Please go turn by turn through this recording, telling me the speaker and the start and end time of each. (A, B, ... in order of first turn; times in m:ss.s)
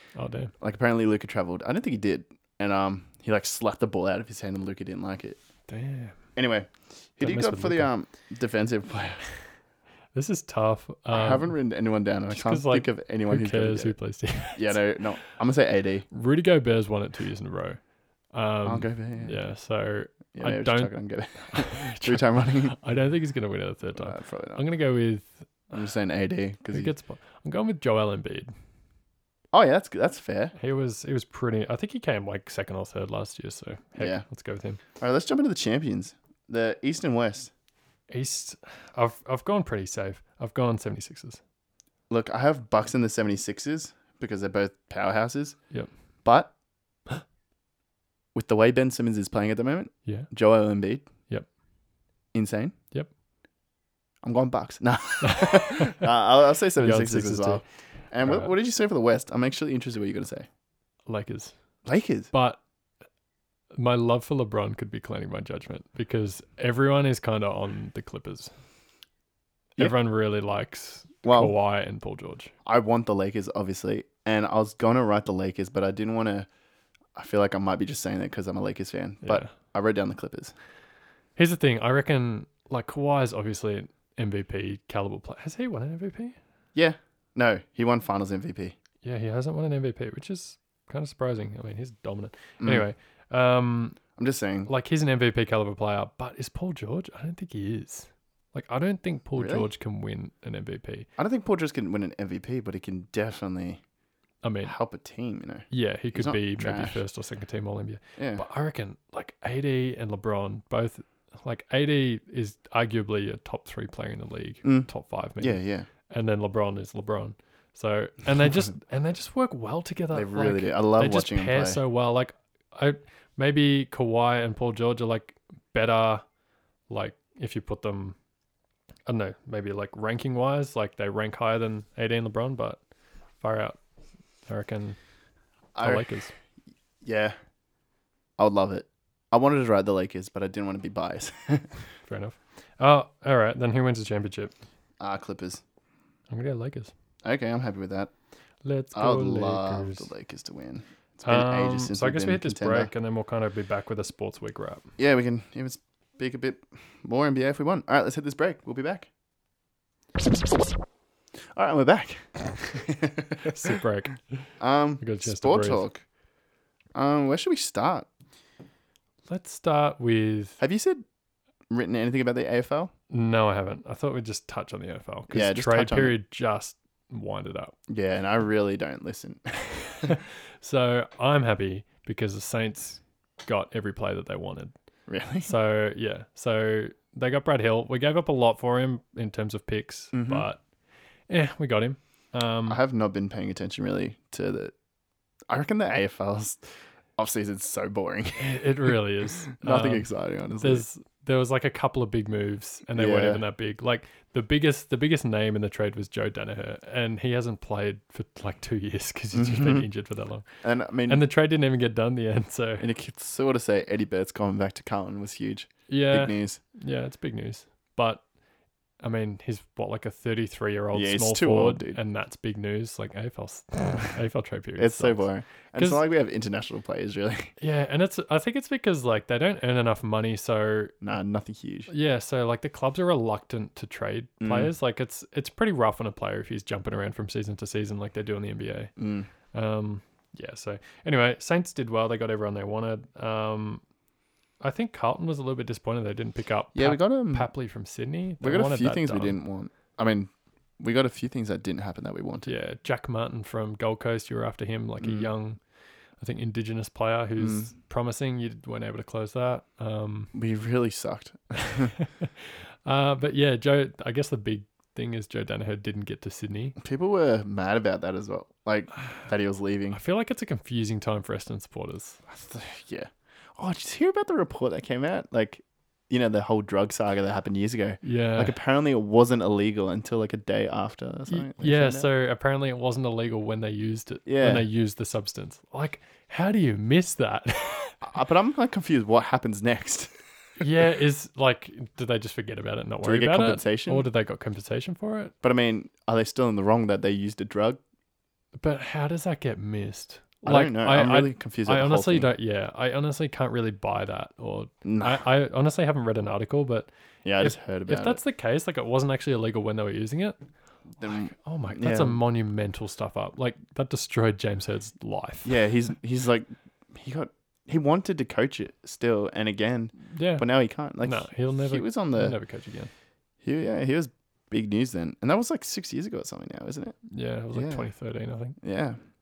0:00.2-0:00.5 A
0:00.6-0:05.4 B
0:05.7-0:06.2 A
0:06.4-0:09.2 B
0:07.2-0:07.9 A
0:10.1-0:11.5 A
0:11.1-0:14.0 B
0:12.3-0:14.8 A
0:14.5-0:16.0 B
0:16.1-0:17.8 A
0:18.3-0:25.7 A
0:18.6-0:19.4 B
0:20.3-0:22.8 B
0:24.0-0:24.6 B
0:25.7-0:26.9 B
0:26.7-0:28.5 A
0:29.5-0:30.5 B
0:30.6-0:34.8 A
0:34.0-0:34.2 B
0:35.0-0:37.5 B
0:38.1-0:41.4 A
0:42.1-0:45.6 B
0:46.2-0:46.5 B
0:48.3-0:51.1 B
0:52.3-0:52.8 B
0:54.2-1:00.5 B
0:55.2-0:56.1 A
0:56.8-0:57.6 A
0:58.2-0:58.5 A
1:01.1-1:01.5 A
1:01.8-1:02.3 B
1:02.3-1:02.6 A
1:03.7-1:08.5 A
1:09.8-1:12.5 A
1:11.2-1:11.5 B
1:12.6-1:16.5 B
1:17.1-1:20.5 B
1:19.2-1:19.5 A
1:21.4-1:26.4 A
1:26.7-1:28.7 B
1:29.0-1:34.0 A
1:32.6-1:32.9 B
1:34.2-1:34.7 B
1:34.7-1:41.1 A
1:39.4-1:39.7 B
1:41.2-1:43.8 B
1:44.4-1:44.7 A
1:44.6-1:47.0 B
1:45.7-2:06.2 A
1:48.2-1:48.4 B
1:54.6-1:54.9 B
1:55.4-1:55.9 B
2:00.1-2:01.8 B
2:06.9-2:08.2 A
2:09.1-2:12.8 A
2:13.4-2:13.8 A
2:14.5-2:15.0 A
2:15.7-2:16.0 B
2:15.8-2:16.3 A
2:17.0-2:17.4 B
2:18.4-2:21.7 B
2:22.0-2:24.5 A
2:25.0-2:25.6 B
2:26.3-2:26.9 A
2:27.2-2:28.1 B
2:28.6-2:30.1 A
2:28.9-2:32.9 B
2:31.2-2:34.8 A
2:35.0-2:39.1 B
2:41.5-2:43.7 B
2:43.4-2:44.2 A
2:44.6-2:46.0 B
2:45.0-2:45.8 A
2:46.9-2:48.1 B
2:49.3-2:50.6 A
2:50.6-2:51.0 B
2:51.7-2:52.9 B
2:53.1-2:57.7 A
2:55.3-2:56.2 B
2:57.9-3:00.1 B
3:00.0-3:04.7 A
3:05.1-3:05.5 B
3:05.4-3:10.6 A
3:10.1-3:10.4 B
3:11.3-3:12.8 A
3:12.7-3:14.7 B
3:15.5-3:16.6 B
3:17.2-3:19.0 B
3:18.4-3:20.1 A
3:19.5-3:20.8 B
3:20.6-3:30.4 A
3:22.9-3:23.4 B
3:29.3-3:29.9 B
3:30.6-3:31.2 B
3:31.1-3:32.8 A
3:32.8-3:36.6 B
3:35.9-3:38.2 A
3:39.0-3:45.2 A
3:40.9-3:42.0 B
3:44.8-3:47.5 B
3:45.8-3:46.0 A
3:47.6-3:51.0 A
3:51.0-3:51.9 B
3:51.9-3:58.9 A
3:54.4-3:54.7 B
3:59.0-3:59.3 B
3:59.5-4:03.8 A
4:04.6-4:09.4 A
4:06.7-4:07.5 B
4:08.4-4:12.5 B
4:12.4-4:15.6 A
4:15.0-4:15.3 B
4:16.2-4:20.3 A
4:17.4-4:17.7 B
4:20.3-4:21.9 B
4:21.6-4:26.8 A
4:26.8-4:30.0 B
4:29.9-4:32.2 A
4:32.3-4:42.1 B
4:38.0-4:38.6 A
4:41.3-4:48.0 A
4:44.2-4:44.7 B
4:48.0-4:50.1 B
4:50.6-4:55.3 A
4:53.0-4:54.1 B
4:55.4-4:57.8 B
4:58.6-5:10.4 A
5:00.4-5:02.3 B
5:04.8-5:05.2 B
5:07.2-5:08.2 B
5:11.0-5:12.2 B
5:11.0-5:15.5 A
5:15.4-5:22.4 B
5:20.1-5:20.5 A
5:21.0-5:22.9 A
5:23.4-5:27.0 B
5:27.1-5:28.6 A
5:27.5-5:27.9 B
5:28.6-5:29.0 B